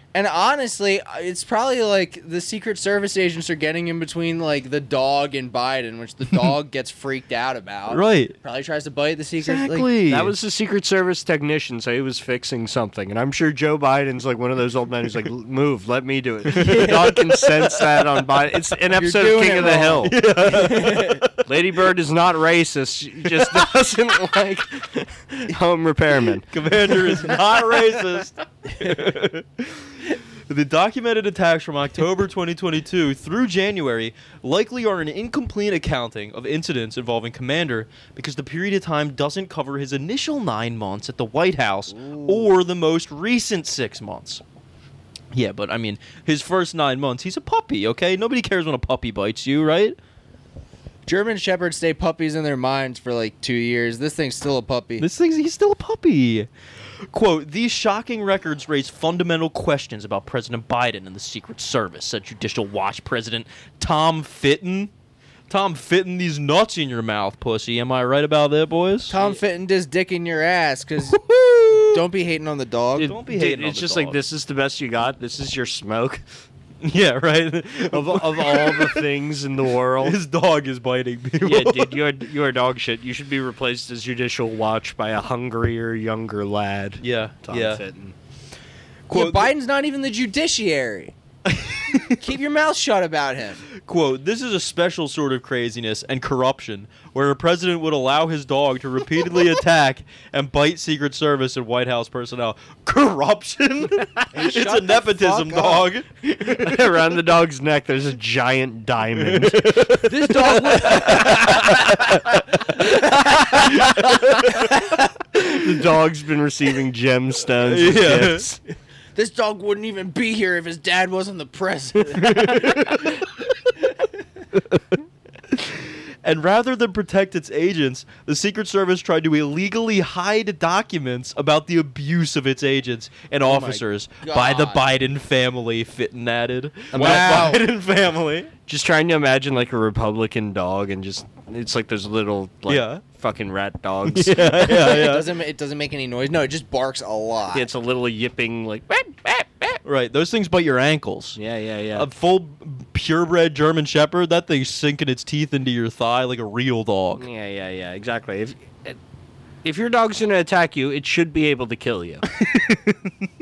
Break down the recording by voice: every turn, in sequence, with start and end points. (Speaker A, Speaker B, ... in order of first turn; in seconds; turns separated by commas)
Speaker A: 0.1-9.9, Speaker B: 7.9-8.3, Speaker B: 9.4-10.3, Speaker C: 10.1-20.1, Speaker B: 16.5-18.1, Speaker A: 16.6-17.2, Speaker A: 18.9-21.2, Speaker B: 20.0-21.5, Speaker C: 21.5-28.0, Speaker B: 26.5-44.4, Speaker A: 41.9-42.5, Speaker B: 45.3-50.0, Speaker A: 51.1-55.1, Speaker B: 55.0-56.5, Speaker B: 57.1-64.9, Speaker B: 65.5-69.2, Speaker A: 69.1-73.2, Speaker B: 71.3-72.0, Speaker B: 73.0-74.2, Speaker C: 73.0-76.2, Speaker B: 76.8-79.1, Speaker C: 77.9-80.2, Speaker B: 80.0-82.0, Speaker C: 81.4-88.2, Speaker B: 87.0-87.8, Speaker B: 89.1-89.5, Speaker A: 89.1-91.2, Speaker B: 91.5-92.2, Speaker A: 92.2-93.6, Speaker B: 93.8-106.8, Speaker A: 104.3-105.9, Speaker C: 106.4-110.1, Speaker B: 109.2-112.4, Speaker A: 110.0-115.1, Speaker B: 113.4-114.7, Speaker C: 115.3-118.6, Speaker B: 117.6-118.5, Speaker A: 119.2-123.3, Speaker B: 122.2-123.1, Speaker A: 123.8-124.1, Speaker B: 125.5-138.5, Speaker A: 133.4-134.8, Speaker C: 136.9-137.6, Speaker A: 136.9-137.7, Speaker C: 138.7-144.8, Speaker B: 142.7-143.0, Speaker B: 144.1-145.3, Speaker A: 144.5-147.7, Speaker C: 147.5-149.8, Speaker B: 149.8-151.4, Speaker C: 151.4-152.1, Speaker B: 151.9-157.2, Speaker C: 157.2-159.0, Speaker C: 159.6-162.2, Speaker B: 162.3-163.1